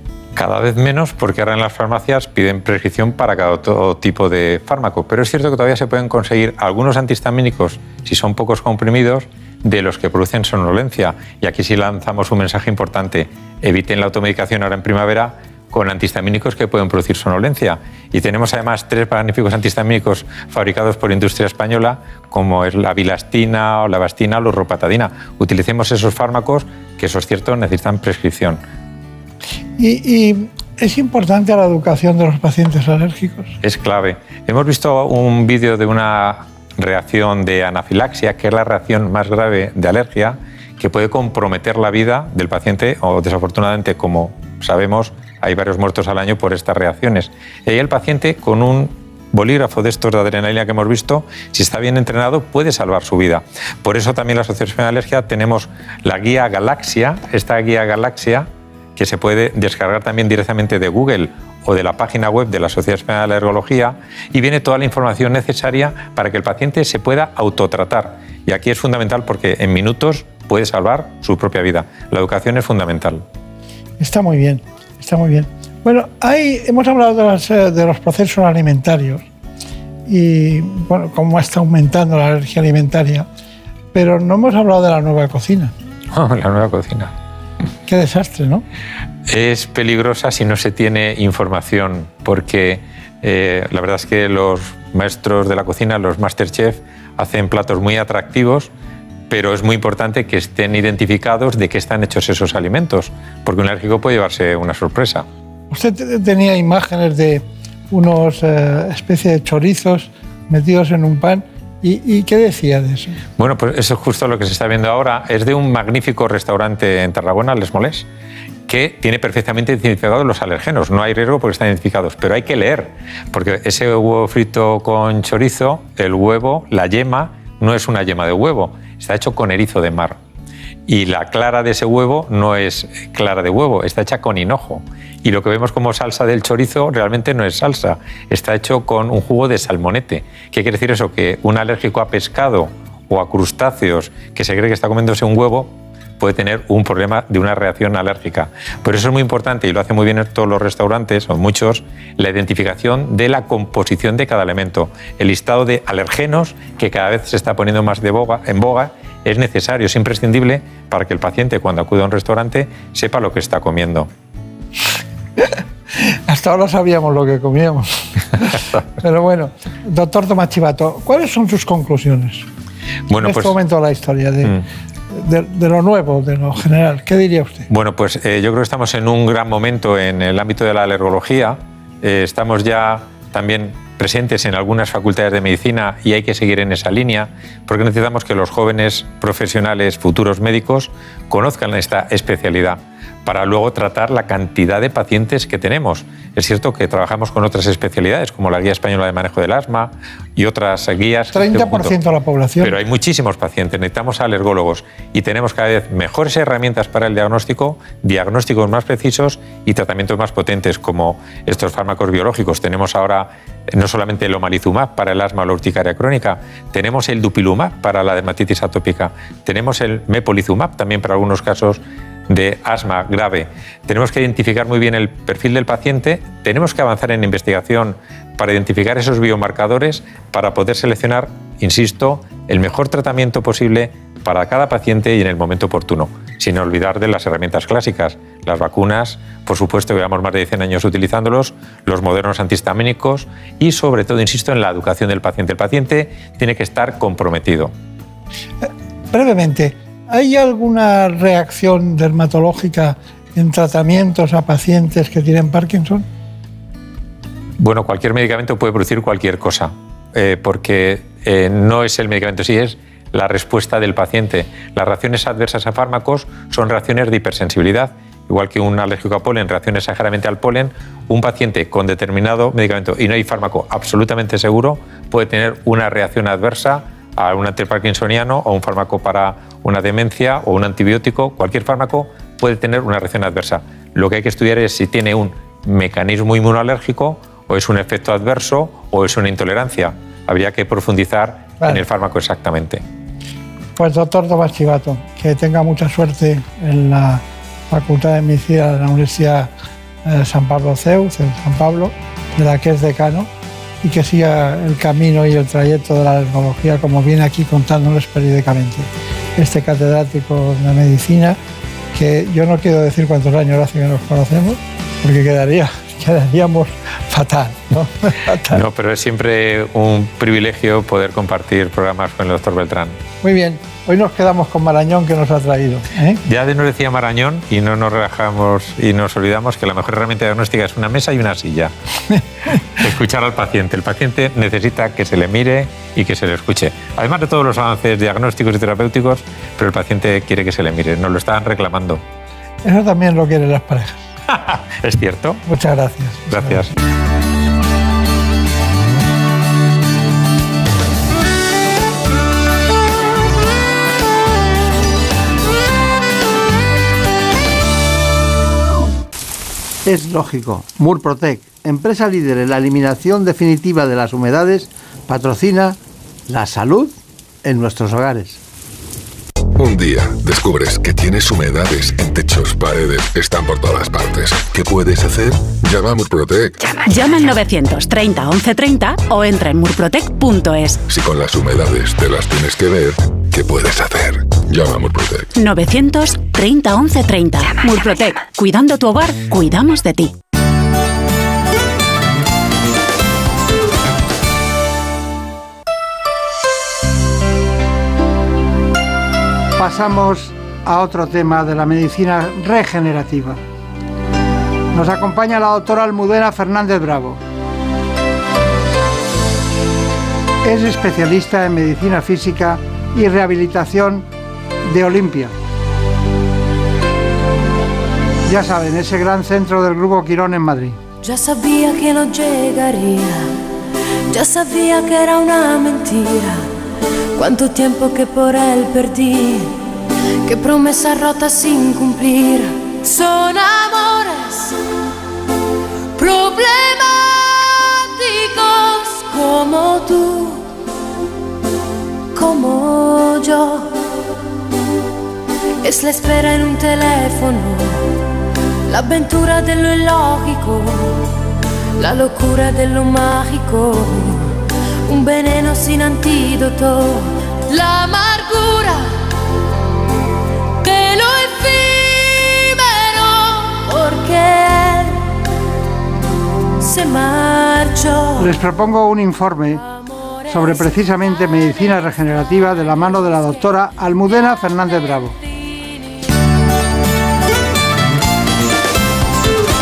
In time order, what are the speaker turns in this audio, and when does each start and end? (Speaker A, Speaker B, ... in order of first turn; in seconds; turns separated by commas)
Speaker A: 0.3-28.6, Speaker B: 29.8-33.5, Speaker A: 33.6-73.2, Speaker B: 74.0-79.2, Speaker B: 80.1-83.3, Speaker B: 83.9-85.7, Speaker A: 86.1-87.1, Speaker B: 87.9-88.6, Speaker A: 89.3-98.7, Speaker A: 99.3-105.2, Speaker B: 105.7-113.2, Speaker A: 113.4-118.0, Speaker A: 118.7-130.2, Speaker A: 130.9-164.1, Speaker B: 165.4-172.4, Speaker A: 173.1-173.6, Speaker B: 173.1-177.7, Speaker A: 177.7-201.9, Speaker B: 201.3-202.8, Speaker A: 202.6-247.7, Speaker B: 248.6-256.0, Speaker A: 257.6-292.8, Speaker B: 293.8-299.5, Speaker B: 300.0-303.3, Speaker B: 303.8-311.4, Speaker B: 311.9-318.6, Speaker A: 318.5-323.0, Speaker B: 323.2-326.2, Speaker A: 326.2-331.7, Speaker A: 332.8-342.0, Speaker B: 342.6-344.0, Speaker A: 344.3-345.4, Speaker B: 345.5-346.6, Speaker A: 346.3-346.7, Speaker C: 369.6-376.6, Speaker D: 376.6-380.8, Speaker C: 380.9-385.3, Speaker D: 385.3-390.1, Speaker B: 399.6-403.4, Speaker B: 404.7-407.2, Speaker B: 410.4-414.1, Speaker B: 414.6-415.3, Speaker B: 418.2-420.8, Speaker E: 421.0-423.3, Speaker E: 424.1-426.5, Speaker E: 427.2-429.6, Speaker E: 430.2-434.6, Speaker E: 436.0-440.4, Speaker E: 442.1-443.9, Speaker E: 445.6-447.9, Speaker E: 448.7-451.1, Speaker E: 451.8-454.3, Speaker E: 454.9-459.0, Speaker E: 460.6-465.0, Speaker E: 466.6-468.4, Speaker B: 468.2-469.6, Speaker E: 469.8-471.9, Speaker B: 470.3-475.1